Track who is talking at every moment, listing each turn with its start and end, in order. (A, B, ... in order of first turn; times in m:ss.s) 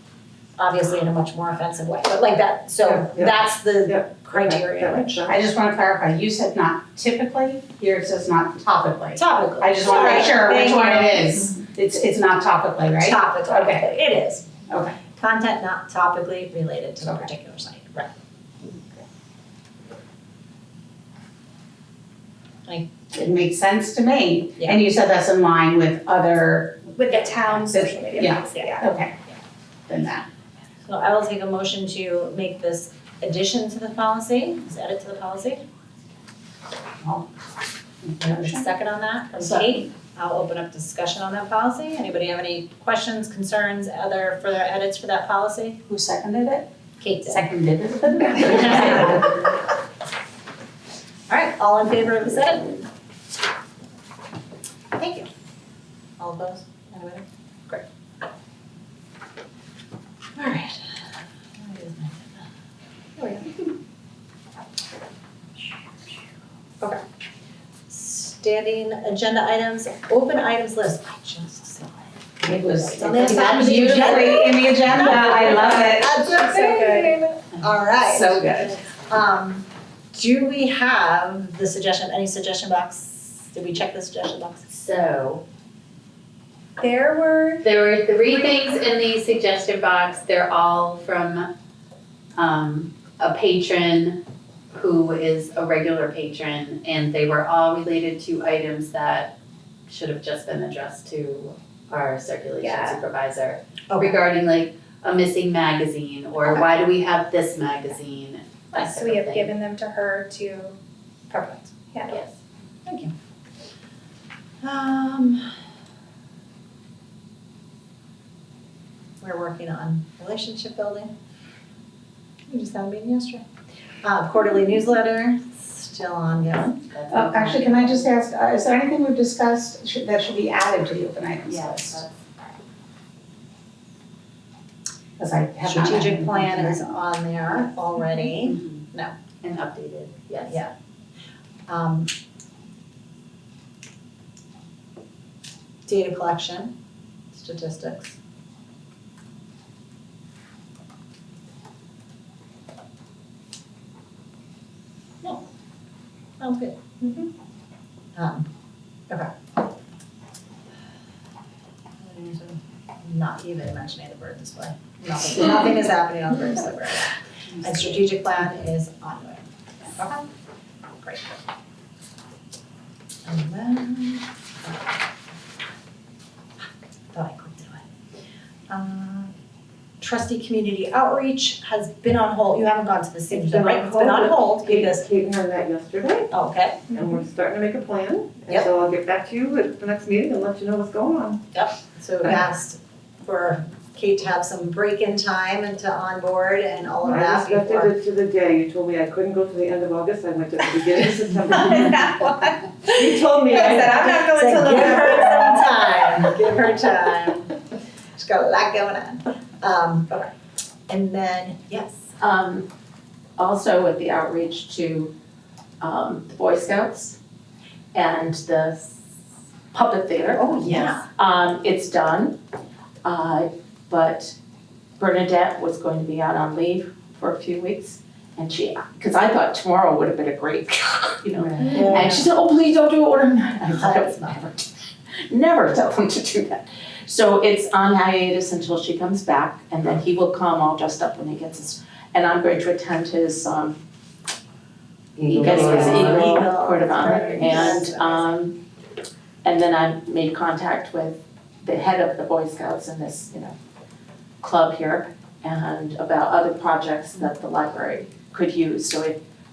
0:00.6-0:05.3 A
0:03.0-0:05.4 B
0:05.3-0:13.8 C
0:09.2-0:11.5 A
0:13.0-0:14.5 A
0:14.7-0:15.0 C
0:15.0-0:18.1 A
0:23.1-0:27.0 C
0:27.0-0:28.9 D
0:27.5-0:29.2 C
0:29.9-0:30.3 C
0:30.8-0:35.6 A
0:38.0-0:38.6 C
0:38.2-0:45.8 A
0:45.9-0:46.6 C
0:47.0-0:47.5 A
0:47.3-0:49.3 C
0:48.3-0:49.5 A
0:51.3-0:52.9 A
0:55.0-0:55.3 A
0:56.2-0:57.8 A
1:00.4-1:00.8 A
1:01.6-1:02.5 A
1:03.2-1:03.5 A
1:07.9-1:12.2 A
1:12.4-1:16.2 C
1:12.7-1:24.6 A
1:13.3-1:13.8 E
1:15.5-1:17.2 D
1:18.1-1:18.7 C
1:24.7-1:25.4 F
1:26.8-1:27.6 D
1:27.6-1:31.5 F
1:32.4-1:34.2 F
1:34.7-1:39.3 F
1:39.9-1:49.5 F
1:42.6-1:43.0 D
1:43.9-1:44.2 A
1:48.7-1:50.8 D
1:51.3-1:51.8 A
1:51.9-1:52.2 D
1:52.1-1:52.4 F
1:52.8-1:53.1 A
1:54.6-1:55.5 A
1:59.2-2:01.1 A
2:02.5-2:03.4 A
2:04.0-2:06.8 A
2:06.6-2:08.1 F
2:07.1-2:12.0 C
2:11.5-2:12.1 F
2:15.2-2:16.8 C
2:15.6-2:19.1 A
2:18.4-2:18.8 F
2:19.4-2:20.6 F
2:20.4-2:20.7 A
2:21.7-2:22.1 A
2:25.9-2:26.7 A
2:27.3-2:28.2 A
2:36.4-2:37.2 A
2:38.2-2:38.5 A
2:42.0-2:50.3 A
2:53.2-2:55.0 A
2:57.1-2:57.8 A
2:58.7-2:59.3 A
3:00.0-3:05.0 A
3:03.3-3:06.3 B
3:06.3-3:06.9 A
3:06.9-3:11.4 B
3:11.5-3:17.9 A
3:17.0-3:22.2 B
3:21.7-3:22.7 D
3:22.9-3:25.6 B
3:23.5-3:27.6 A
3:23.8-3:24.5 D
3:28.2-3:30.3 A
3:30.9-3:32.0 A
3:32.2-3:32.7 E
3:33.4-3:35.1 E
3:35.8-3:37.2 E
3:37.9-3:38.8 E
3:39.7-3:42.4 E
3:40.4-3:41.0 A
3:40.6-3:40.9 F
3:43.0-3:44.4 E
3:45.0-3:54.7 E
3:51.5-3:52.0 F
3:51.6-3:52.3 A
3:53.8-3:54.4 A
3:55.3-4:03.8 E
4:05.2-4:06.5 B
4:05.3-4:05.9 F
4:05.4-4:08.6 E
4:05.4-4:08.2 A
4:07.0-4:07.8 B
4:09.4-4:13.6 E
4:14.4-4:19.2 E